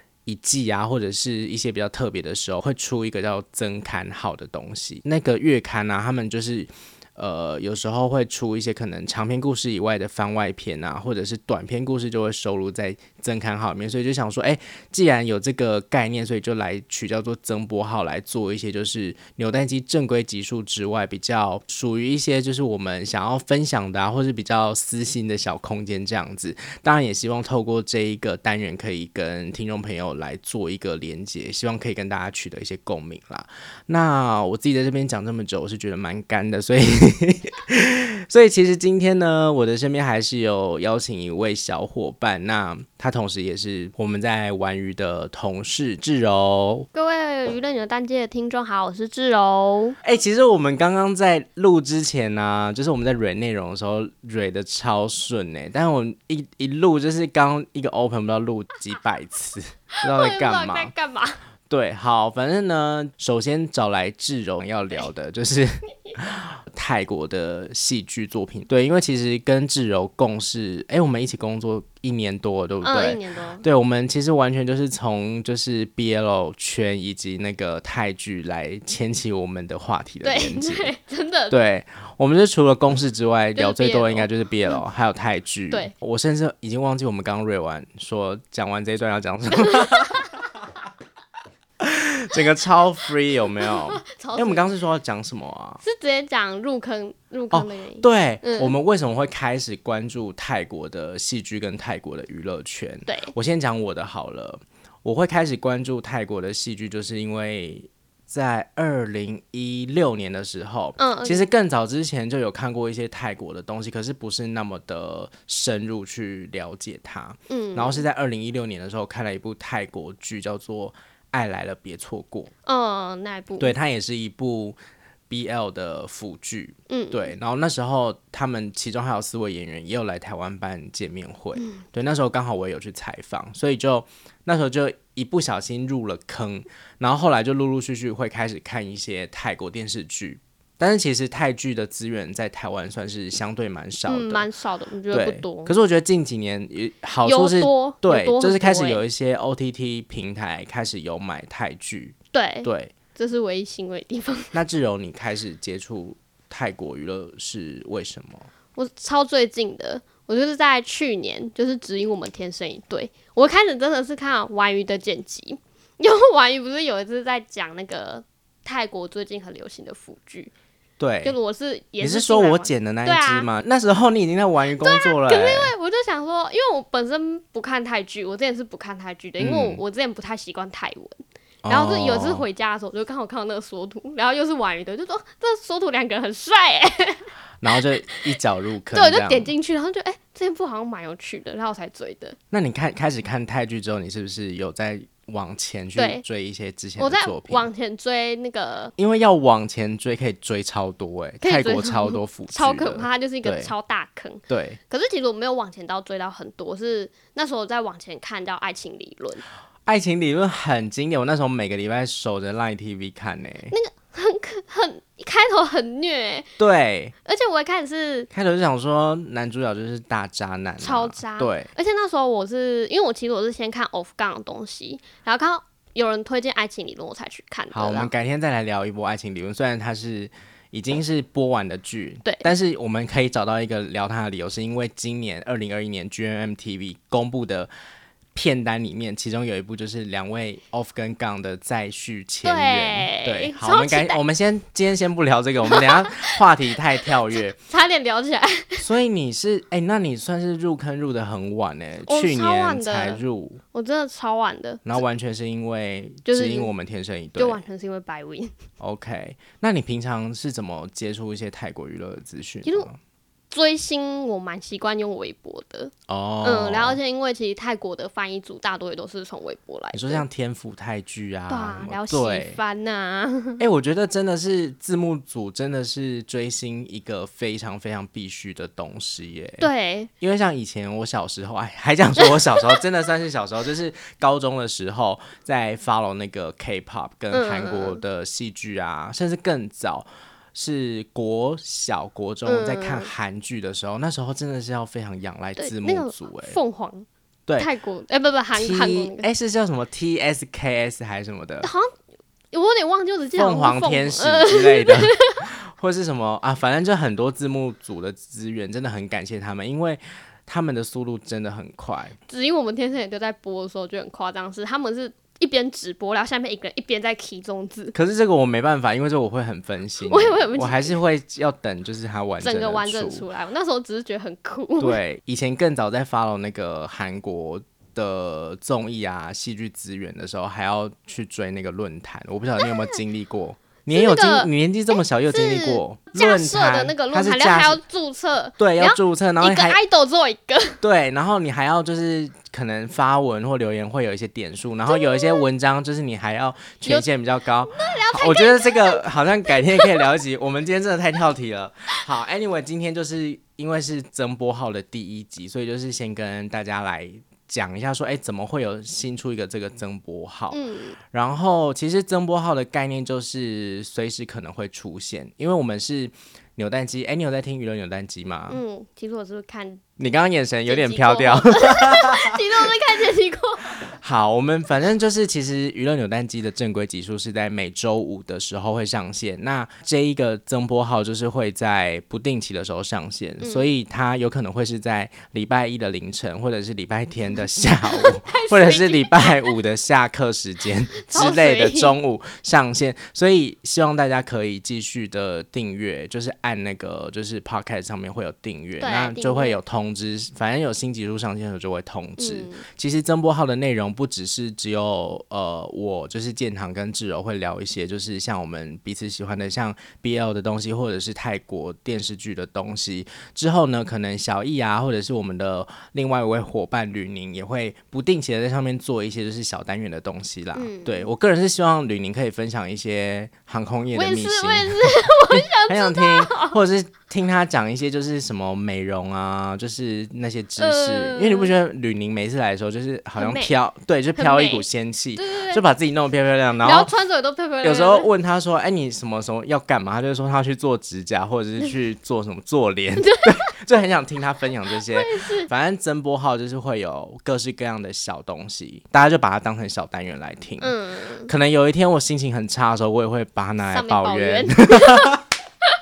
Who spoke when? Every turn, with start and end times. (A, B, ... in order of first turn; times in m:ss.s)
0:00.3-0:46.9 A
0:46.9-0:50.0 B
0:50.0-1:00.9 A
1:00.0-1:01.4 B
1:01.7-1:20.9 A
1:12.8-1:13.6 B
1:20.2-1:21.6 B
1:21.5-1:30.3 A
1:23.6-1:24.8 B
1:29.8-1:30.2 B
1:31.8-1:35.8 A
1:33.7-1:34.7 B
1:35.8-1:38.7 B
1:37.5-2:02.5 A
1:43.1-1:43.4 B
1:51.0-1:51.5 B
1:57.5-1:58.1 B
2:02.7-2:03.7 B
2:03.6-2:04.8 A
2:05.3-2:24.5 A
2:06.9-2:07.3 B
2:24.1-2:25.8 B
2:25.1-2:32.9 A
2:27.2-2:29.0 B
2:32.3-2:34.6 B
2:34.5-2:38.5 A
2:38.8-2:50.5 B
2:51.0-2:51.4 A
2:51.2-2:53.5 B
2:52.0-2:55.7 A
2:54.8-3:07.3 B
2:59.4-2:59.8 A
3:01.6-3:02.5 A
3:07.6-3:09.5 A
3:08.9-3:12.4 B
3:12.5-3:17.7 A
3:16.0-3:16.2 B
3:17.0-3:19.0 B
3:19.0-3:23.7 A
3:21.4-3:29.4 B
3:24.5-3:24.8 A
3:29.9-3:33.8 A
3:33.7-3:36.5 B
3:36.6-3:37.1 A
3:37.2-3:38.3 B
3:38.3-3:41.7 A
3:40.8-3:48.1 B
3:47.7-3:57.7 A
3:58.4-4:07.6 A
4:02.4-4:04.2 B
4:05.6-4:06.3 B
4:07.7-4:08.9 B
4:08.8-4:13.6 A
4:12.1-4:14.8 B
4:14.8-4:17.6 A
4:16.3-4:16.7 B
4:17.4-4:18.6 B
4:18.8-4:23.0 A
4:23.5-4:30.2 B
4:26.1-4:27.0 A
4:29.9-4:32.6 A
4:31.5-4:33.6 B
4:33.6-4:39.7 A
4:39.6-4:40.1 B
4:40.2-4:56.6 A
4:47.3-4:48.0 B
4:52.5-4:53.1 B
4:55.6-4:57.1 B
4:57.6-4:59.3 B
4:58.6-5:01.7 A
5:01.6-5:01.9 B
5:02.5-5:05.4 B
5:03.4-5:12.2 A
5:12.3-5:18.0 B
5:17.9-5:23.2 A
5:20.1-5:21.0 B
5:22.4-5:25.0 B
5:24.8-5:37.8 A
5:33.9-5:40.8 B
5:38.6-5:39.8 A
5:40.8-6:00.6 A
5:44.9-5:45.4 B
5:47.7-5:50.2 B
6:00.5-6:01.0 B
6:01.1-6:08.6 A
6:08.5-6:09.8 B
6:10.0-6:12.4 A
6:10.7-6:13.8 B
6:13.9-7:16.9 A
6:23.4-6:23.7 B
6:27.9-6:29.5 B
6:31.1-6:32.0 B
6:38.8-6:39.6 B
6:42.2-6:42.6 B
7:00.6-7:01.1 B
7:03.9-7:06.6 B
7:10.6-7:11.5 B
7:13.2-7:13.5 B
7:14.2-7:14.6 B
7:15.2-7:15.6 B
7:16.6-7:18.1 B
7:17.6-7:35.2 A
7:23.0-7:23.5 B
7:24.9-7:25.5 B
7:30.6-7:31.3 B
7:33.6-7:35.2 B